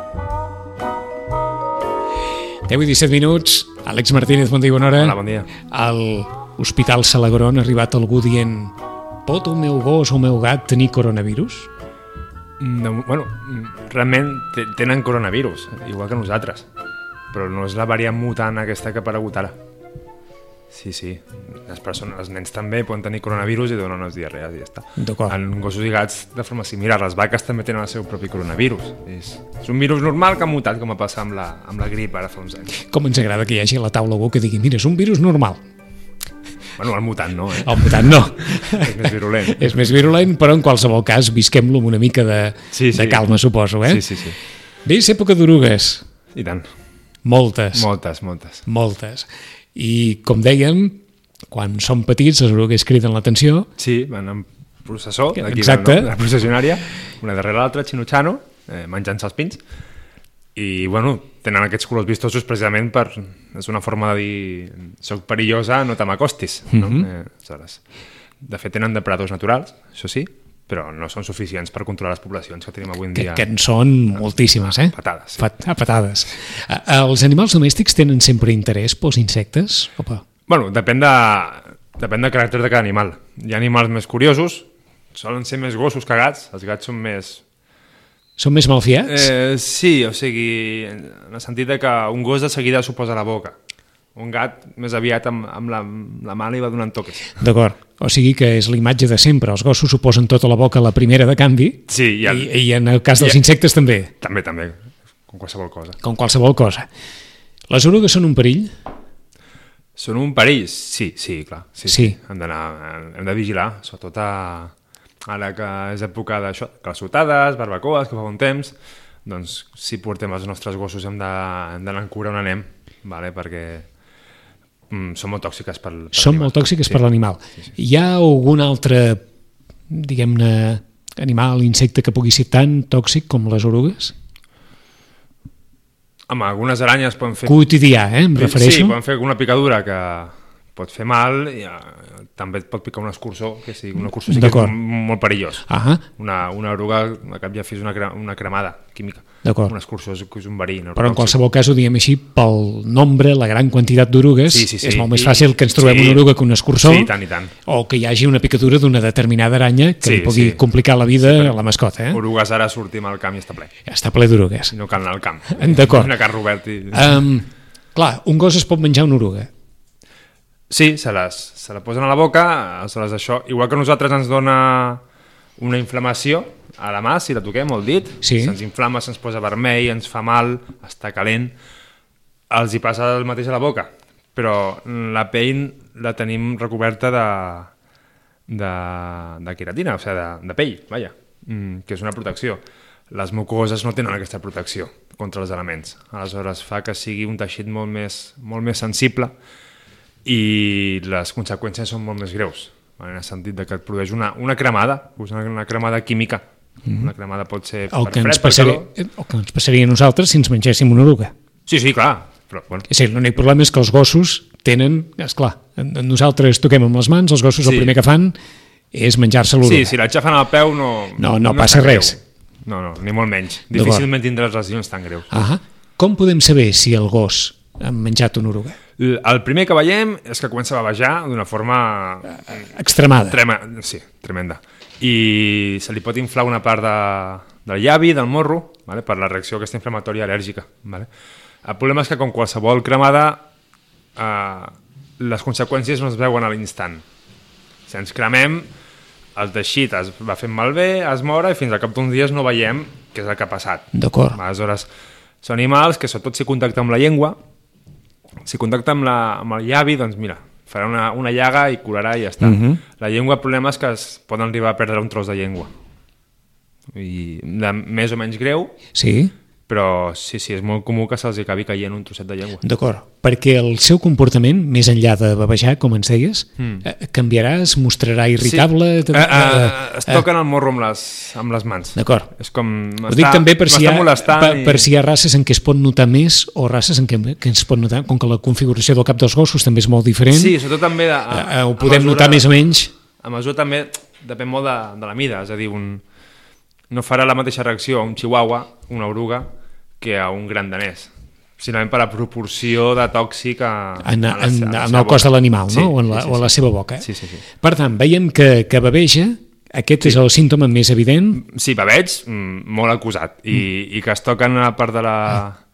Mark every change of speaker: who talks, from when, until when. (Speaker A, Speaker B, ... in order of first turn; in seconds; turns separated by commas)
Speaker A: 2.7-5.2, Speaker B: 5.0-5.5, Speaker A: 5.7-8.7, Speaker A: 9.3-11.7, Speaker B: 12.6-16.7, Speaker B: 17.3-19.6, Speaker B: 20.7-32.7, Speaker A: 25.0-25.4, Speaker A: 32.7-35.6, Speaker B: 36.8-38.3, Speaker A: 37.6-44.0, Speaker B: 38.8-39.8, Speaker B: 42.7-43.2, Speaker B: 43.9-44.4, Speaker A: 44.9-46.0, Speaker B: 46.3-46.6, Speaker A: 47.2-47.9, Speaker B: 47.7-48.6, Speaker A: 48.7-51.0, Speaker A: 51.5-53.7, Speaker B: 53.8-59.6, Speaker A: 55.4-56.1, Speaker B: 60.6-67.8, Speaker A: 66.7-67.1, Speaker B: 68.4-73.5, Speaker A: 73.1-80.2, Speaker B: 74.7-75.4, Speaker B: 80.5-87.4, Speaker A: 88.4-89.3, Speaker B: 89.1-93.5, Speaker B: 94.2-97.3, Speaker A: 97.4-104.1, Speaker B: 101.9-102.5, Speaker B: 104.2-106.0, Speaker A: 106.0-106.9, Speaker A: 107.7-108.7, Speaker B: 110.0-114.7, Speaker A: 111.9-112.2, Speaker B: 115.3-118.7, Speaker B: 119.3-123.9, Speaker B: 124.9-127.0, Speaker A: 126.2-129.2, Speaker A: 129.9-134.1, Speaker B: 136.3-137.6, Speaker A: 137.5-139.0, Speaker B: 138.3-145.7, Speaker A: 144.3-144.7, Speaker A: 145.7-146.0, Speaker B: 146.2-151.4, Speaker A: 149.4-149.7, Speaker A: 151.0-157.1, Speaker B: 154.5-157.5, Speaker A: 157.7-162.2, Speaker B: 160.0-160.6, Speaker B: 161.2-161.6, Speaker B: 162.1-163.7, Speaker A: 163.9-164.7, Speaker B: 164.7-167.2, Speaker A: 165.5-166.2, Speaker A: 166.9-169.5, Speaker B: 170.7-175.0, Speaker B: 175.6-181.6, Speaker A: 178.2-178.6, Speaker B: 182.5-187.7, Speaker B: 188.5-199.3, Speaker B: 200.2-208.9, Speaker A: 207.9-211.3, Speaker B: 211.7-212.9, Speaker A: 212.9-218.4, Speaker B: 217.6-218.0, Speaker A: 218.9-219.9, Speaker B: 219.6-225.3, Speaker A: 221.2-222.2, Speaker A: 223.7-224.1, Speaker A: 225.3-228.8, Speaker B: 229.0-232.6, Speaker A: 232.3-233.4, Speaker B: 233.3-241.1, Speaker B: 241.6-243.5, Speaker B: 244.2-247.0, Speaker B: 247.9-248.7, Speaker B: 249.4-254.9, Speaker A: 253.9-254.4, Speaker B: 255.4-257.4, Speaker B: 258.4-265.7, Speaker A: 262.4-262.8, Speaker B: 266.9-268.8, Speaker A: 268.9-269.3, Speaker B: 269.7-272.6, Speaker A: 272.6-280.2, Speaker B: 276.6-276.9, Speaker B: 278.4-284.9, Speaker A: 281.9-282.3, Speaker A: 283.1-290.6, Speaker B: 290.3-292.5, Speaker A: 291.3-292.9, Speaker B: 293.2-296.0, Speaker B: 296.9-307.4, Speaker A: 304.0-307.1, Speaker A: 307.6-311.4, Speaker B: 311.4-315.6